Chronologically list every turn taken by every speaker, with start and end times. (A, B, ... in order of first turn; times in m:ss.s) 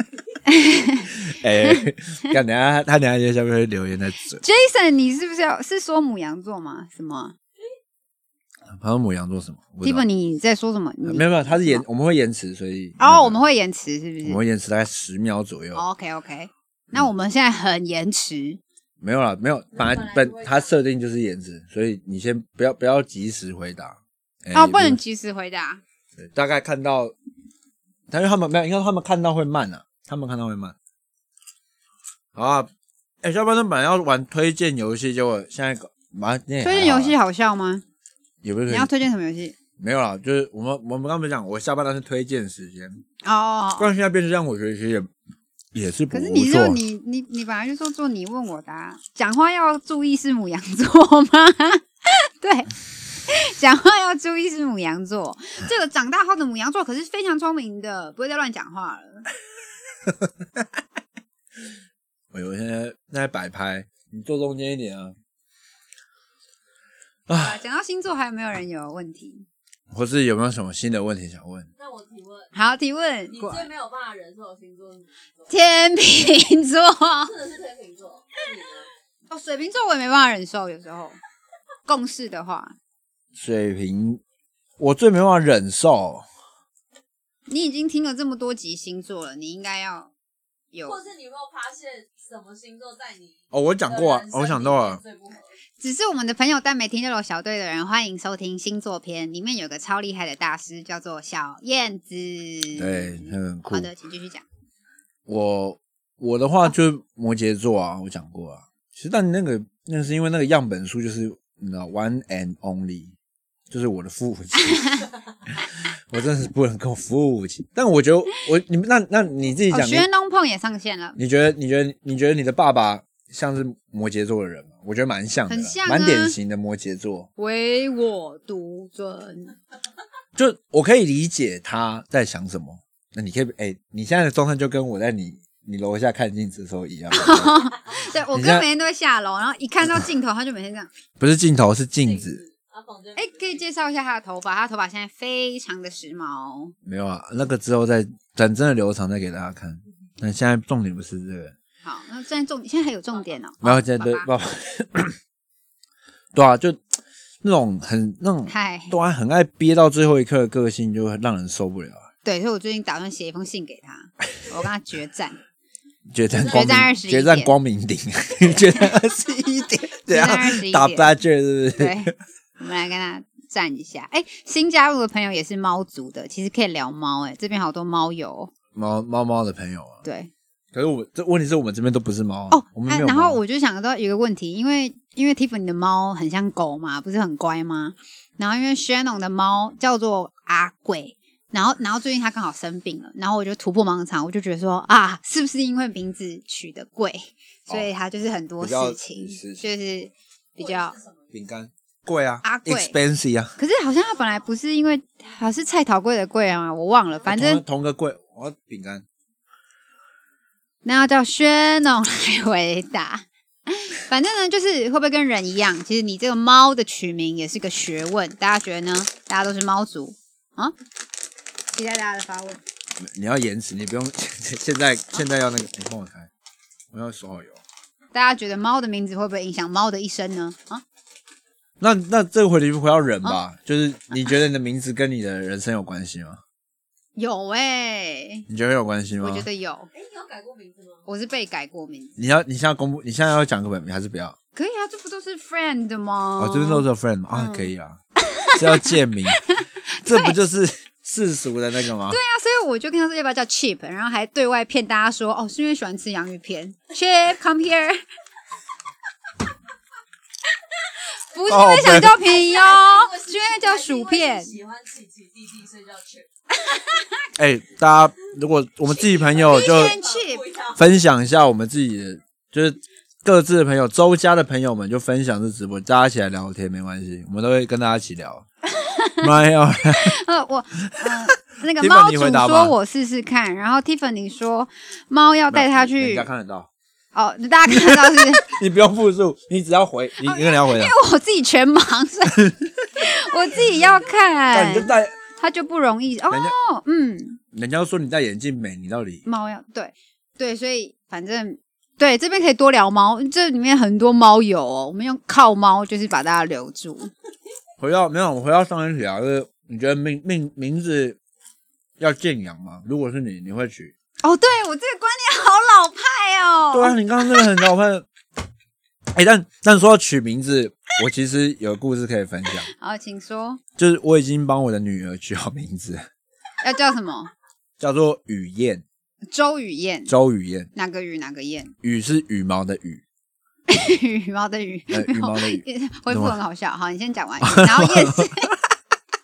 0:00.4-0:01.1 A
0:01.1-0:04.4 B
0:04.4-0:07.4 A
0:08.7-0:10.0 B
0:09.8-0:11.8 A
0:11.0-0:13.4 B
0:13.0-0:14.4 A
0:14.2-0:15.8 B
0:15.7-0:18.6 A
0:19.0-0:25.0 B
0:19.7-0:20.7 C
0:24.5-0:25.8 A
0:26.2-0:27.1 B
0:28.1-0:30.8 B
0:32.4-0:32.7 B
0:33.2-0:37.2 B
0:36.6-0:37.8 A
0:38.4-0:38.9 B
0:38.7-0:39.5 A
0:39.8-0:43.0 B
0:43.2-0:43.9 A
0:43.8-0:45.1 B
0:45.7-0:46.8 B
0:46.1-0:52.7 A
0:53.2-0:59.2 A
1:00.0-1:00.6 B
1:02.3-1:05.1 B
1:07.3-1:07.6 B
1:07.4-1:09.4 A
1:09.9-1:11.7 B
1:11.8-1:12.5 C
1:12.5-1:13.7 A
1:13.3-1:15.5 C
1:15.5-1:17.3 A
1:17.2-1:18.9 C
1:19.3-1:21.2 A
1:21.9-1:22.8 A
1:23.4-1:24.2 B
1:24.8-1:26.2 B
1:27.5-1:30.1 A
1:30.7-1:31.0 A
1:30.8-1:35.5 C
1:33.5-1:35.0 B
1:35.8-1:44.4 A
1:42.8-1:43.9 B
1:45.3-1:53.1 B
1:53.7-2:00.1 B
1:59.7-2:01.2 A
2:01.2-2:07.3 B
2:05.5-2:06.4 A
2:07.4-2:09.5 A
2:10.4-2:17.6 B
2:17.1-2:20.9 A
2:18.3-2:18.7 B
2:21.2-2:22.4 B
2:22.0-2:23.6 C
2:23.2-2:26.7 A
2:26.8-2:31.5 B
2:31.8-2:34.3 A
2:33.6-2:35.2 B
2:36.3-2:36.8 B
2:37.4-2:42.1 B
2:38.5-2:38.9 A
2:42.2-2:45.4 A
2:46.1-2:52.1 B
2:46.3-2:47.5 A
2:50.1-2:51.1 A
2:51.7-2:58.5 A
2:58.7-3:00.0 B
3:00.0-3:00.3 A
3:00.7-3:03.4 B
3:02.5-3:21.0 A
3:18.6-3:19.6 B
3:20.6-3:21.2 C
3:21.3-3:23.6 B
3:22.4-3:23.0 A
3:23.6-3:27.6 A
3:27.3-3:29.0 B
3:30.8-3:40.7 A
3:41.7-3:42.6 A
3:43.0-3:46.3 B
3:46.9-3:47.6 B
3:48.1-3:50.8 A
3:51.8-3:56.4 B
3:57.2-3:58.4 A
3:58.5-3:59.5 B
3:59.2-3:59.9 A
3:59.9-4:01.0 C
4:01.1-4:02.1 A
4:02.2-4:04.4 B
4:04.5-4:07.7 A
4:06.4-4:08.0 B
4:08.2-4:10.4 A
4:08.5-4:09.5 B
4:10.0-4:12.2 B
4:12.1-4:18.0 A
4:21.1-4:24.5 A
4:21.5-4:22.2 B
4:22.2-4:26.3 C
4:26.6-4:27.2 A
4:27.4-4:30.0 B
4:28.9-4:30.8 C
4:29.4-4:30.4 A
4:30.8-4:38.4 B
4:38.8-4:39.3 A
4:39.2-4:40.2 B
4:39.9-4:46.3 A
4:40.8-4:42.7 B
4:45.5-4:46.7 B
4:47.1-4:48.4 A
4:47.7-4:50.9 B
4:50.2-4:57.4 A
4:52.4-4:52.7 B
4:54.5-4:55.2 B
4:57.5-4:59.2 B
4:59.2-5:07.1 A
5:07.8-5:11.2 B
5:12.0-5:13.9 B
5:14.2-5:17.5 A
5:16.7-5:18.0 B
5:19.1-5:22.7 B
5:22.7-5:23.6 A
5:23.8-5:26.1 B
5:26.6-5:27.3 A
5:27.8-5:28.8 B
5:29.3-5:30.1 A
5:30.1-5:30.7 B
5:30.7-5:31.7 A
5:31.8-5:33.0 B
5:33.7-5:38.5 A
5:34.9-5:36.4 B
5:37.4-5:38.5 B